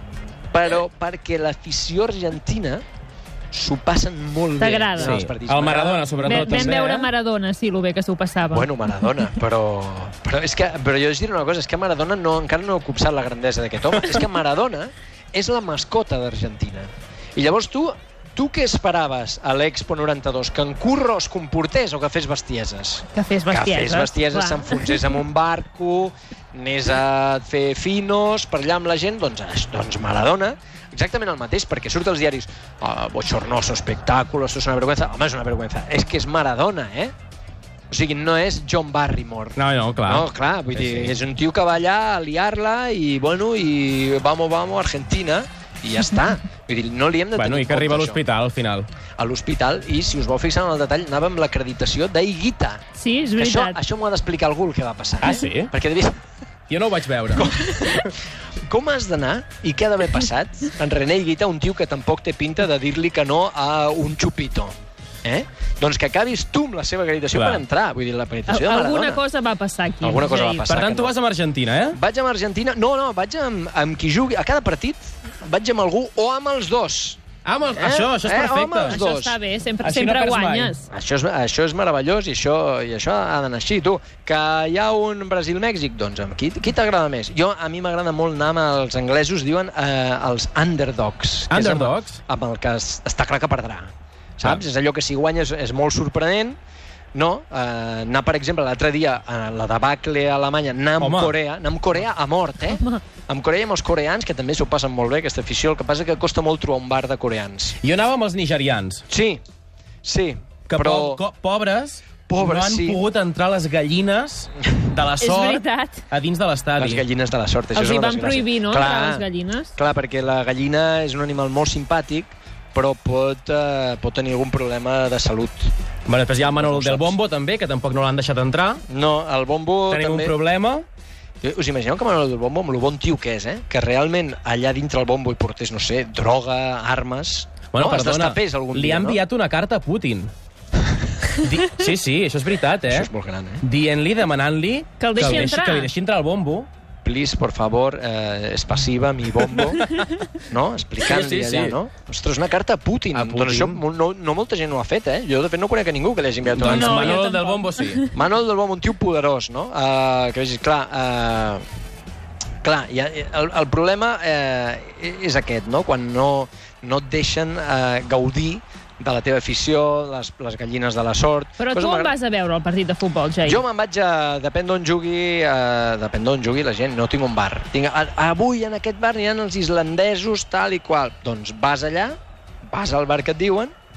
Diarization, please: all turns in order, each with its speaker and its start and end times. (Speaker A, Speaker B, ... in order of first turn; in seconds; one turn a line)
Speaker A: 0.5-2.8
Speaker A: 3.5-6.7
Speaker B: 4.6-5.2
Speaker C: 5.0-7.1
Speaker B: 6.2-8.7
Speaker A: 8.5-37.1
Speaker B: 23.1-25.0
Speaker A: 37.9-48.2
Speaker C: 39.6-41.1
Speaker C: 47.4-48.9
Speaker A: 49.2-52.8
Speaker B: 53.0-53.8
Speaker A: 53.4-56.2
Speaker C: 55.2-55.7
Speaker C: 56.7-57.5
Speaker A: 57.4-58.2
Speaker A: 58.7-64.7
Speaker A: 65.2-69.2
Speaker C: 67.3-67.6
Speaker B: 68.5-70.6
Speaker A: 70.0-71.1
Speaker C: 70.7-72.0
Speaker A: 71.9-77.2
Speaker C: 77.5-79.0
Speaker A: 77.7-79.4
Speaker B: 78.9-80.9
Speaker C: 79.8-80.7
Speaker A: 80.9-96.6
Speaker C: 91.5-92.2
Speaker A: 97.1-107.8
Speaker C: 101.0-101.3
Speaker C: 107.8-109.0
Speaker A: 109.1-109.4
Speaker A: 110.0-111.2
Speaker C: 110.7-117.0
Speaker A: 112.3-113.0
Speaker B: 115.2-116.0
Speaker A: 116.8-125.7
Speaker B: 117.7-119.7
Speaker C: 126.1-128.8
Speaker A: 126.5-127.1
Speaker A: 128.9-130.3
Speaker C: 129.9-130.8
Speaker A: 131.4-139.2
Speaker C: 137.7-140.3
Speaker C: 141.4-143.1
Speaker A: 142.9-143.6
Speaker C: 143.6-146.7
Speaker B: 145.0-145.9
Speaker A: 147.0-149.8
Speaker A: 150.4-157.2
Speaker C: 151.0-151.8
Speaker C: 153.1-153.8
Speaker C: 156.6-158.1
Speaker B: 156.6-158.2
Speaker A: 158.1-161.6
Speaker A: 162.6-172.2
Speaker B: 171.6-173.6
Speaker A: 173.4-182.2
Speaker A: 182.7-183.7